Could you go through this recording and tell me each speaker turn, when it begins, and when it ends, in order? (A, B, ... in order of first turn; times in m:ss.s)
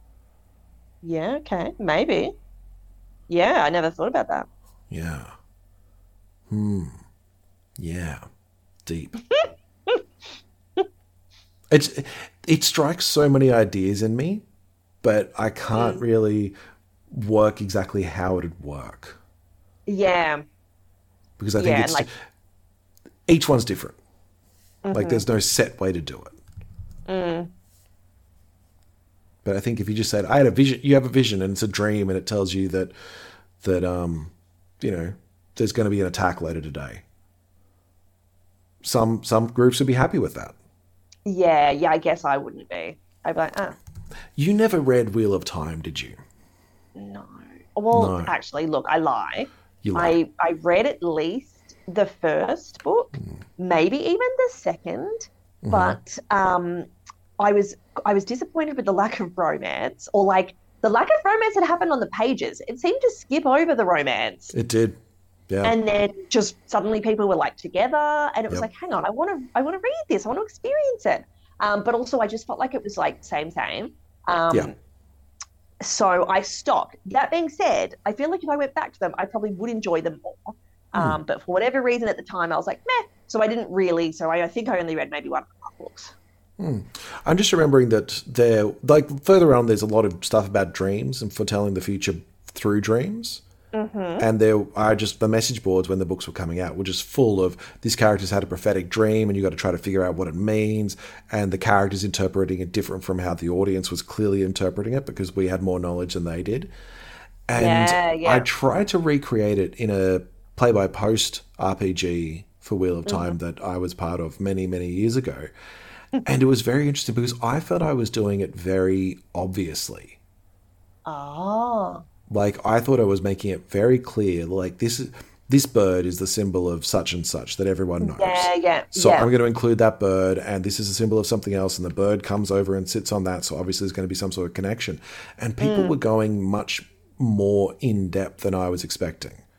0:01.0-0:02.3 A
0:03.3-0:04.5 A
0:04.9-0:05.3 B
0:06.5-0:07.0 B
0:07.8-0:08.2 B
0:08.8-0:09.2 B
0:09.3-0:10.0 A
0:11.7-0:14.4 B
0:15.0-0:16.5 B
0:15.7-0:16.0 A
0:17.1-0:19.2 B
0:19.8-0:20.4 A
0:21.4-0:22.1 B
0:21.6-0:22.1 A
0:23.3-0:24.0 B
0:24.8-0:25.2 A
0:24.9-0:26.3 B
0:27.1-0:27.5 A
0:29.4-0:32.9 B
0:33.6-0:37.0 B
0:38.8-0:40.5 B
0:41.2-0:43.8 A
0:44.4-0:46.2 B
0:47.0-0:56.9 A
0:47.9-0:48.3 B
0:49.8-0:50.2 B
0:55.6-0:56.0 B
0:57.4-1:04.5 A
1:04.5-1:05.7 B
1:05.6-1:14.7 A
1:15.8-1:26.1 A
1:20.9-1:21.2 B
1:26.6-1:33.4 B
1:33.7-1:34.2 A
1:34.2-1:46.7 B
1:47.5-1:55.5 B
1:47.6-1:48.5 A
1:53.0-1:53.3 A
1:56.2-2:00.2 B
2:01.0-2:02.0 A
2:02.3-2:19.4 B
2:08.0-2:09.3 A
2:15.6-2:15.9 A